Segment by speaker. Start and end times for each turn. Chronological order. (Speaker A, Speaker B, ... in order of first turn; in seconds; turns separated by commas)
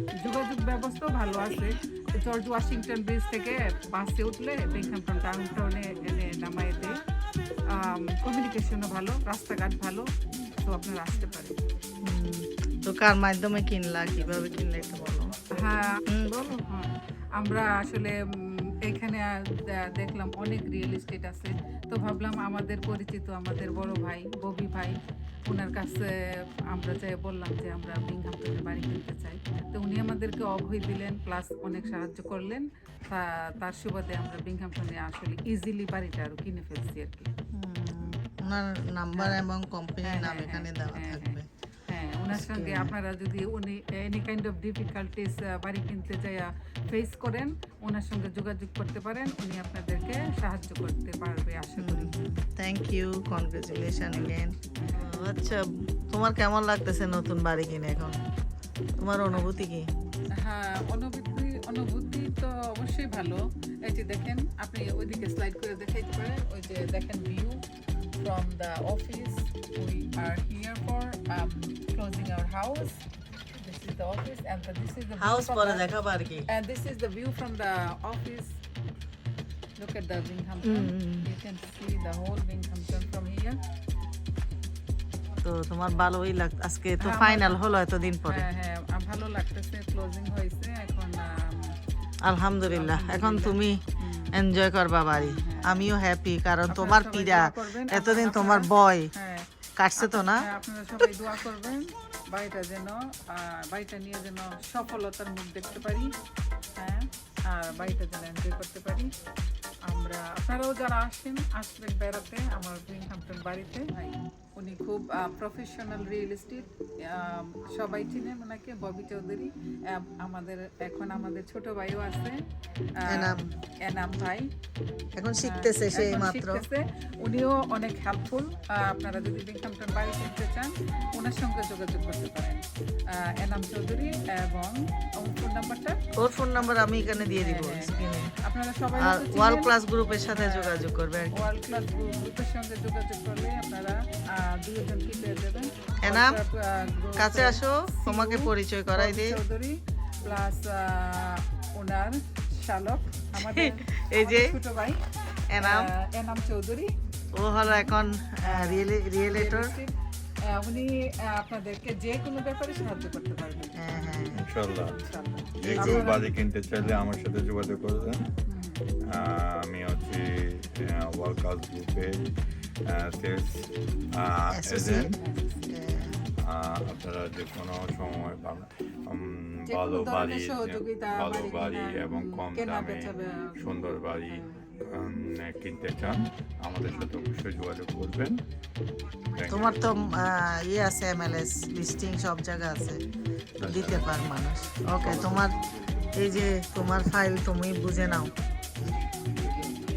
Speaker A: 0.1-7.0, Speaker A: 7.7-11.6, Speaker B: 12.0-15.4, Speaker A: 15.5-16.0, Speaker B: 16.1-16.6, Speaker A: 16.6-37.3, Speaker B: 37.5-41.5, Speaker A: 39.1-39.4, Speaker A: 40.0-52.1, Speaker B: 42.3-42.9, Speaker B: 51.8-58.2, Speaker B: 59.0-59.9, Speaker A: 60.4-67.6, Speaker A: 68.2-73.0, Speaker A: 73.6-75.9, Speaker B: 75.2-76.5, Speaker A: 76.5-78.6, Speaker A: 79.8-83.6, Speaker B: 80.6-81.3, Speaker B: 85.4-88.5, Speaker A: 87.0-87.6, Speaker A: 88.3-91.8, Speaker B: 92.2-99.1, Speaker A: 92.6-94.4, Speaker A: 95.2-95.9, Speaker A: 96.7-106.1, Speaker B: 99.8-100.5, Speaker A: 106.8-109.1, Speaker A: 109.9-122.4, Speaker A: 123.0-124.5, Speaker B: 123.1-123.4, Speaker B: 125.2-126.7, Speaker A: 125.4-136.1, Speaker B: 136.2-138.3, Speaker A: 136.6-139.7, Speaker B: 139.0-141.5, Speaker A: 140.3-155.0, Speaker B: 146.0-146.4, Speaker B: 147.2-149.4, Speaker B: 153.3-154.6, Speaker B: 155.5-155.9, Speaker A: 155.6-156.9, Speaker B: 157.3-159.8, Speaker A: 157.6-159.9, Speaker A: 160.4-163.7, Speaker B: 163.8-164.4, Speaker C: 164.3-165.0, Speaker A: 164.9-166.3, Speaker C: 165.6-168.3, Speaker B: 165.6-166.2, Speaker A: 168.5-168.8, Speaker C: 169.0-172.3, Speaker C: 172.9-175.2, Speaker B: 174.5-175.2, Speaker A: 175.1-175.7, Speaker B: 175.7-176.2, Speaker C: 176.4-188.4, Speaker A: 179.7-184.7, Speaker C: 189.4-189.9, Speaker B: 189.5-193.0, Speaker C: 193.6-194.2, Speaker B: 193.6-195.6, Speaker C: 195.1-195.3, Speaker B: 196.1-198.3